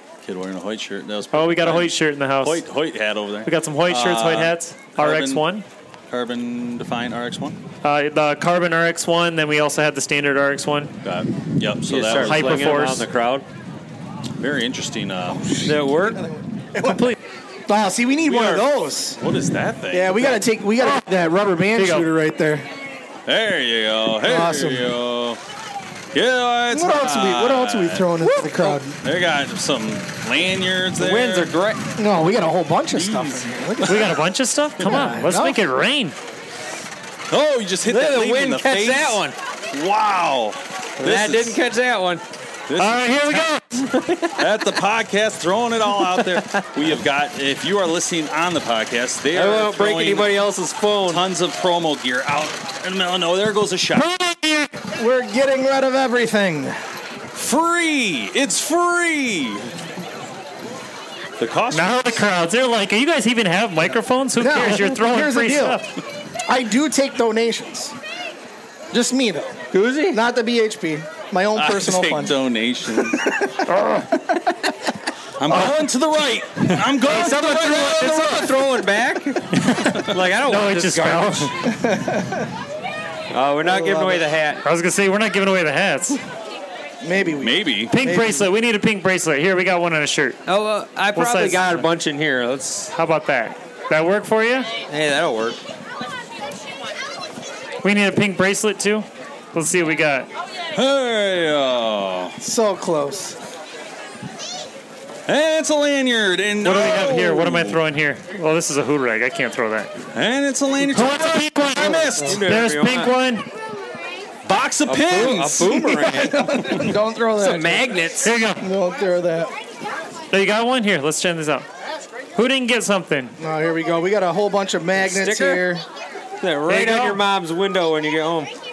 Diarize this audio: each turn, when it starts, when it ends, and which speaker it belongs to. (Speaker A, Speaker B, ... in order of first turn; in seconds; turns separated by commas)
Speaker A: 0.2-5.4, Speaker B: 1.3-2.6, Speaker B: 3.4-5.6, Speaker A: 6.1-7.6, Speaker B: 7.8-10.9, Speaker A: 11.0-12.8, Speaker C: 11.9-13.4, Speaker B: 12.2-13.1, Speaker A: 14.4-15.5, Speaker D: 15.3-17.1, Speaker C: 15.6-16.2, Speaker B: 16.8-17.2, Speaker D: 17.7-19.2, Speaker A: 18.2-20.3, Speaker D: 19.9-22.6, Speaker B: 21.8-22.1, Speaker A: 23.3-25.4, Speaker D: 24.2-24.9, Speaker A: 26.1-28.1, Speaker D: 26.7-29.0, Speaker C: 28.3-28.7, Speaker A: 28.9-31.5, Speaker C: 31.0-31.8, Speaker D: 32.0-34.2, Speaker A: 32.9-34.1, Speaker B: 33.9-36.1, Speaker D: 34.8-35.6, Speaker A: 37.3-41.6, Speaker C: 37.9-39.3, Speaker C: 41.0-42.2, Speaker A: 42.7-43.4, Speaker B: 42.8-43.9, Speaker C: 43.8-44.4, Speaker A: 44.4-50.4, Speaker C: 46.0-46.7, Speaker C: 49.3-51.2, Speaker A: 51.0-54.1, Speaker B: 53.9-54.7, Speaker D: 55.0-56.8, Speaker A: 57.3-59.7, Speaker A: 61.4-62.2, Speaker B: 61.7-65.9, Speaker D: 64.4-65.8, Speaker D: 66.5-67.9, Speaker D: 68.9-72.4, Speaker C: 69.7-70.2, Speaker A: 71.5-73.2, Speaker B: 73.7-74.0, Speaker A: 75.4-78.5, Speaker C: 77.0-81.5, Speaker B: 79.5-81.6, Speaker D: 81.6-82.5, Speaker C: 83.3-84.6, Speaker D: 83.6-84.3, Speaker B: 84.6-86.2, Speaker D: 87.0-88.5, Speaker A: 87.4-87.9, Speaker B: 87.9-90.4, Speaker C: 90.5-92.9, Speaker B: 91.1-91.9, Speaker B: 92.9-94.7, Speaker C: 94.9-95.6, Speaker B: 97.8-100.3, Speaker A: 100.7-102.3, Speaker D: 102.4-103.4, Speaker A: 105.3-107.8, Speaker B: 106.6-109.9, Speaker A: 110.1-112.5, Speaker B: 110.8-113.5, Speaker D: 111.8-112.4, Speaker C: 112.3-113.1, Speaker A: 114.4-116.0, Speaker C: 114.8-118.3, Speaker D: 115.8-118.1, Speaker B: 118.2-118.6, Speaker D: 118.6-119.5, Speaker B: 120.3-121.7, Speaker B: 122.3-123.3, Speaker D: 123.4-125.8, Speaker C: 125.0-125.6, Speaker C: 126.4-128.5, Speaker B: 126.7-127.2